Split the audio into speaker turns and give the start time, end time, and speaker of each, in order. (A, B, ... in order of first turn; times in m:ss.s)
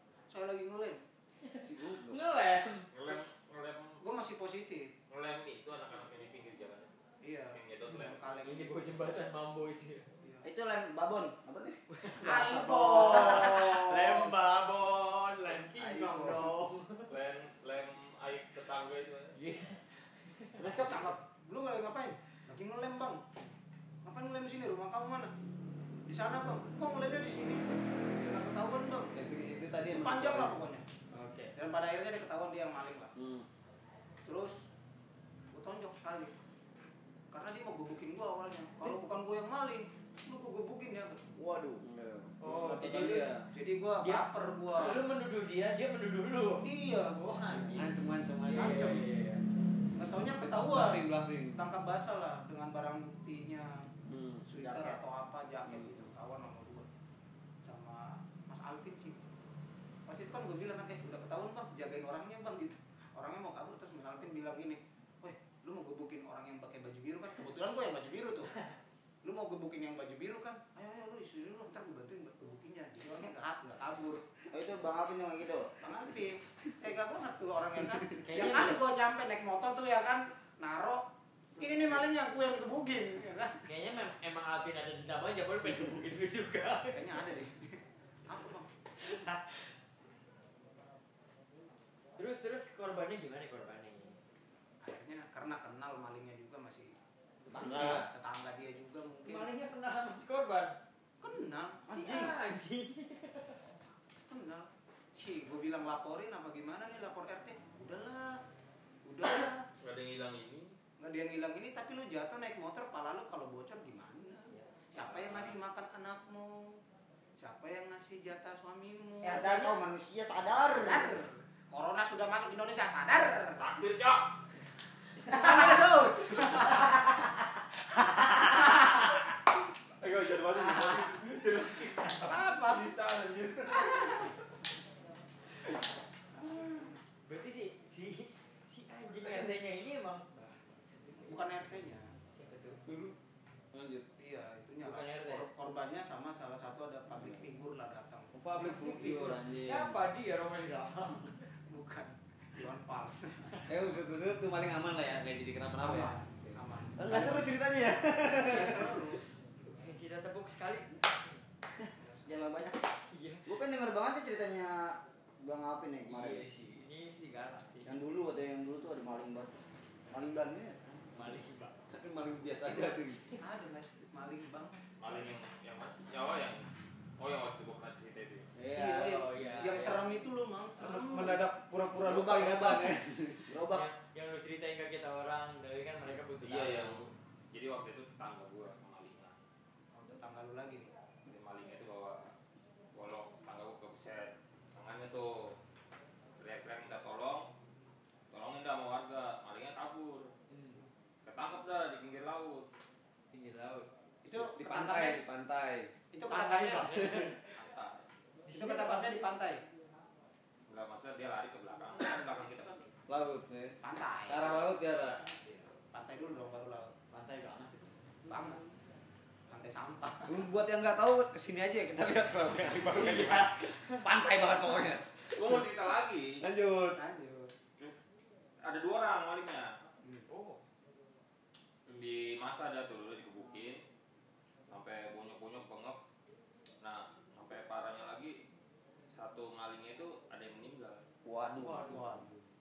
0:00.3-0:01.0 A
0:01.4-0:02.9 B
0:01.6-0:02.2 C
0:02.9-0:04.0 D
0:04.0-0:04.9 A
0:05.1-0:06.9 D
0:07.2-0:08.7 A
0:07.5-0:08.2 D
0:08.4-0:10.1 B
0:10.4-0:13.9 E
0:11.9-0:17.1 B
0:12.2-0:14.1 A
0:15.6-0:16.6 A
0:17.1-0:19.4 D
0:19.3-0:20.9 B
0:20.6-0:23.2 A
0:20.6-0:21.1 E
0:24.0-0:25.3 A
0:26.0-0:29.1 A
0:29.1-0:30.6 C
0:29.9-0:30.8 A
0:31.1-0:31.5 B
0:31.6-0:33.1 A
0:33.2-0:33.4 C
0:34.2-0:34.5 A
0:35.5-0:36.3 A
0:37.3-0:41.3 A
0:41.4-0:41.8 E
0:41.8-0:43.4 C
0:42.4-0:43.4 B
0:43.4-0:45.0 A
0:44.0-0:49.4 B
0:46.6-0:47.7 A
0:47.7-0:48.9 C
0:48.5-0:49.0 A
0:50.0-0:53.8 A
0:50.7-0:51.6 C
0:54.1-0:54.4 C
0:54.4-0:56.9 A
0:54.6-0:55.0 E
0:55.7-0:56.0 C
0:57.6-0:59.2 A
1:00.1-1:08.5 A
1:09.2-1:14.2 A
1:14.5-1:15.8 E
1:15.8-1:21.0 A
1:18.2-1:18.8 B
1:21.6-1:23.6 A
1:23.6-1:27.2 B
1:26.9-1:28.7 A
1:29.0-1:29.7 B
1:32.2-1:34.2 B
1:34.8-1:36.9 A
1:37.4-1:38.0 B
1:37.5-1:39.5 A
1:37.5-1:38.1 C
1:39.2-1:40.8 B
1:41.2-1:41.8 A
1:41.8-1:42.4 E
1:41.9-1:43.6 B
1:44.3-1:48.4 A
1:49.0-1:49.6 A
1:49.8-1:50.8 D
1:51.0-1:56.8 A
1:54.5-1:55.6 B
1:57.4-1:59.6 A
1:59.2-1:59.8 C
1:59.2-2:01.2 E
2:00.7-2:03.6 A
2:03.6-2:04.3 D
2:05.2-2:07.1 A
2:08.3-2:09.1 A
2:10.0-2:14.2 D
2:10.6-2:11.0 A
2:12.2-2:12.9 A
2:13.8-2:14.3 A
2:16.4-2:16.9 A
2:17.2-2:21.8 B
2:21.2-2:22.1 A
2:22.3-2:22.8 B
2:22.8-2:23.2 C
2:23.7-2:24.1 C
2:24.2-2:29.2 A
2:24.8-2:25.5 B
2:28.3-2:30.0 C
2:28.6-2:31.4 B
2:31.7-2:33.6 A
2:33.7-2:36.1 C
2:35.8-2:37.5 A
2:37.0-2:39.0 C
2:38.3-2:39.2 A
2:38.4-2:39.0 B
2:39.6-2:41.4 B
2:42.0-2:42.2 A
2:42.2-2:42.9 E
2:43.1-2:43.4 B
2:43.4-2:46.4 E
2:46.1-2:48.0 B
2:47.8-2:49.6 E
2:50.1-2:51.1 E
2:51.1-2:51.7 B
2:51.9-2:53.2 C
2:53.4-2:54.8 A
2:55.0-2:56.6 D
2:57.2-2:58.5 D
2:58.6-2:59.0 E
2:58.6-3:01.4 A
2:58.7-3:00.1 B
3:00.8-3:03.5 C
3:02.0-3:03.9 E
3:03.7-3:07.1 B
3:06.4-3:09.4 D
3:09.9-3:10.9 A
3:11.2-3:12.3 D
3:12.9-3:15.6 D
3:16.4-3:17.5 D
3:18.3-3:20.3 D
3:20.5-3:20.8 B
3:21.2-3:22.7 D
3:23.3-3:23.9 B
3:24.2-3:25.2 A
3:24.3-3:25.9 C
3:26.1-3:27.0 A
3:26.2-3:27.6 B
3:27.6-3:28.1 D
3:28.4-3:29.2 B
3:28.5-3:29.6 A
3:30.7-3:32.9 D
3:33.1-3:33.8 C
3:33.8-3:34.7 A
3:34.3-3:35.2 C
3:35.7-3:36.9 A
3:37.1-3:38.1 B
3:38.2-3:38.6 A
3:39.5-3:40.4 A
3:40.3-3:45.6 C
3:42.8-3:44.6 B
3:45.2-3:46.4 D
3:46.4-3:47.0 C
3:46.9-3:47.5 A
3:48.6-3:49.7 D
3:50.0-3:50.3 A
3:50.3-3:50.6 D
3:51.9-3:53.8 D
3:54.7-3:56.0 D
3:56.8-3:58.4 D
3:59.1-4:01.0 D
4:01.2-4:02.1 C
4:01.6-4:02.3 A